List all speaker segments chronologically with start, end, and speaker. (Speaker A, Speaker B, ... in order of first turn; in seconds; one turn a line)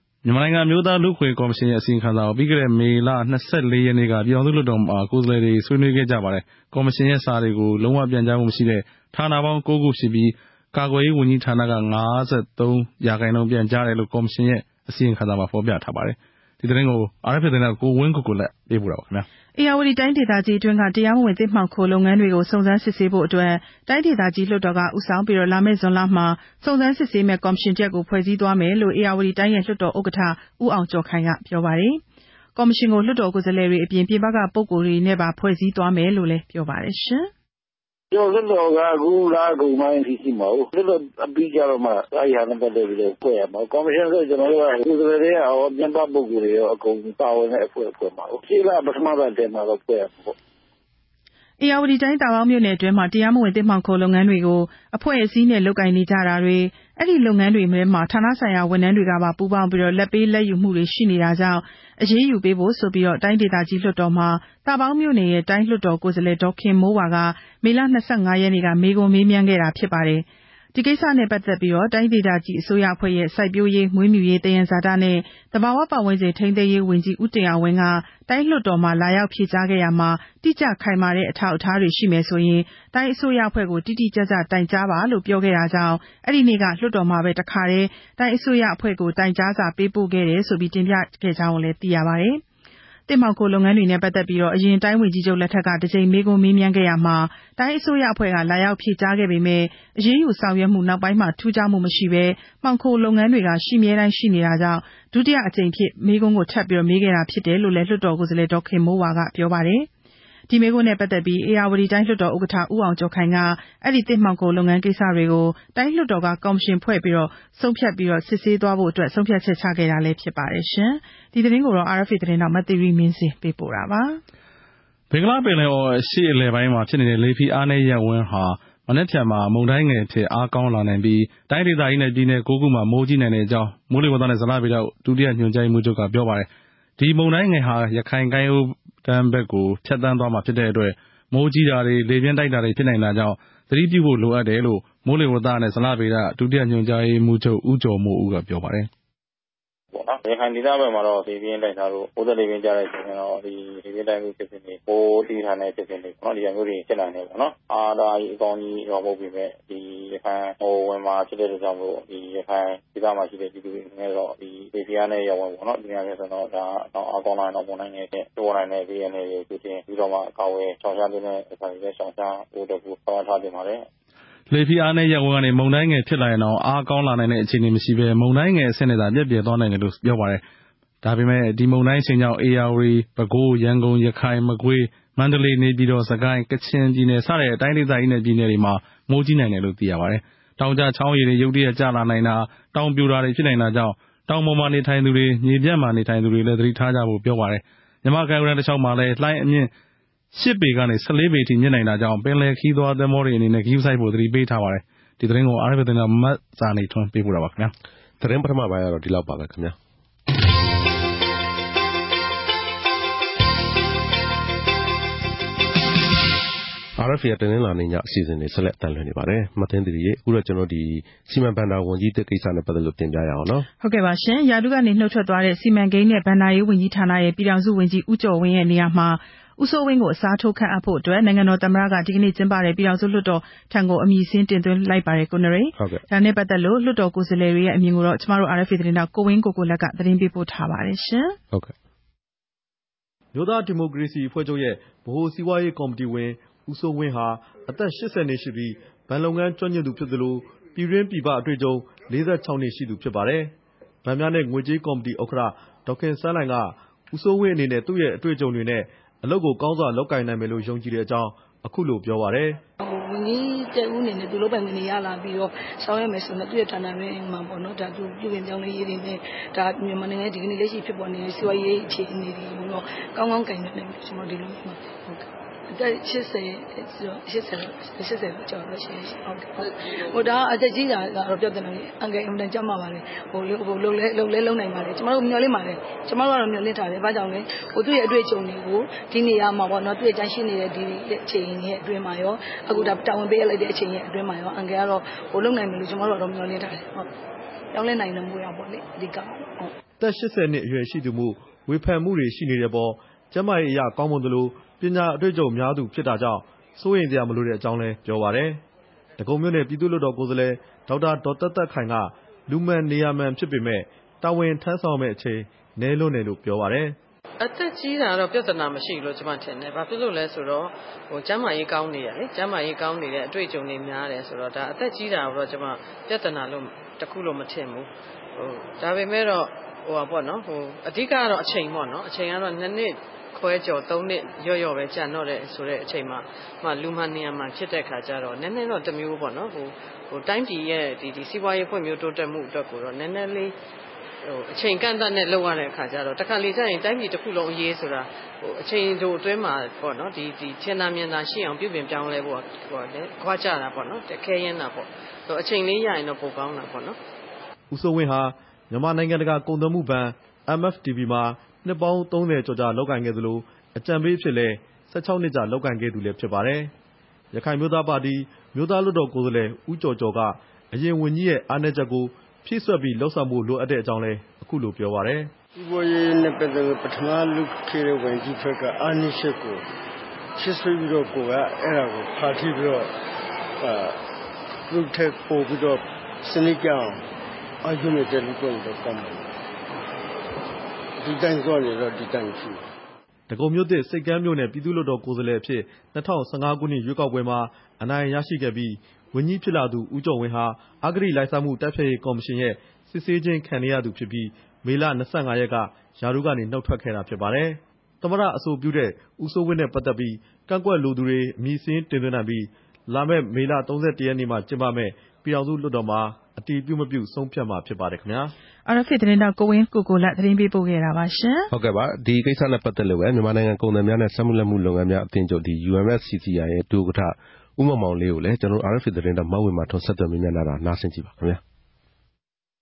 Speaker A: 0.2-19.3
Speaker B: 19.6-32.0
Speaker B: 32.6-37.3
Speaker C: 38.1-50.3
Speaker B: 51.6-92.4
Speaker B: 93.1-109.9
Speaker B: 110.5-124.2
Speaker A: 125.1-148.9
Speaker D: 149.9-173.9
Speaker A: 174.5-180.4
Speaker A: 181.0-199.7
Speaker A: 200.3-207.7
Speaker E: 208.2-209.8
Speaker E: 217.0-223.7
Speaker B: 223.8-241.4
Speaker E: 235.8-236.0
Speaker F: 243.3-262.6
Speaker G: 262.8-297.1
Speaker G: 297.7-299.7
Speaker F: 300.0-308.6
Speaker F: 309.2-317.0
Speaker H: 317.4-343.6
Speaker H: 344.2-357.0
Speaker F: 357.7-366.7
Speaker F: 367.3-375.3
Speaker I: 375.6-379.6
Speaker I: 380.4-382.9
Speaker I: 383.6-384.0
Speaker I: 384.7-387.0
Speaker I: 387.6-389.3
Speaker I: 391.0-392.7
Speaker F: 393.3-418.3
Speaker B: 418.7-421.5
Speaker E: 421.5-431.4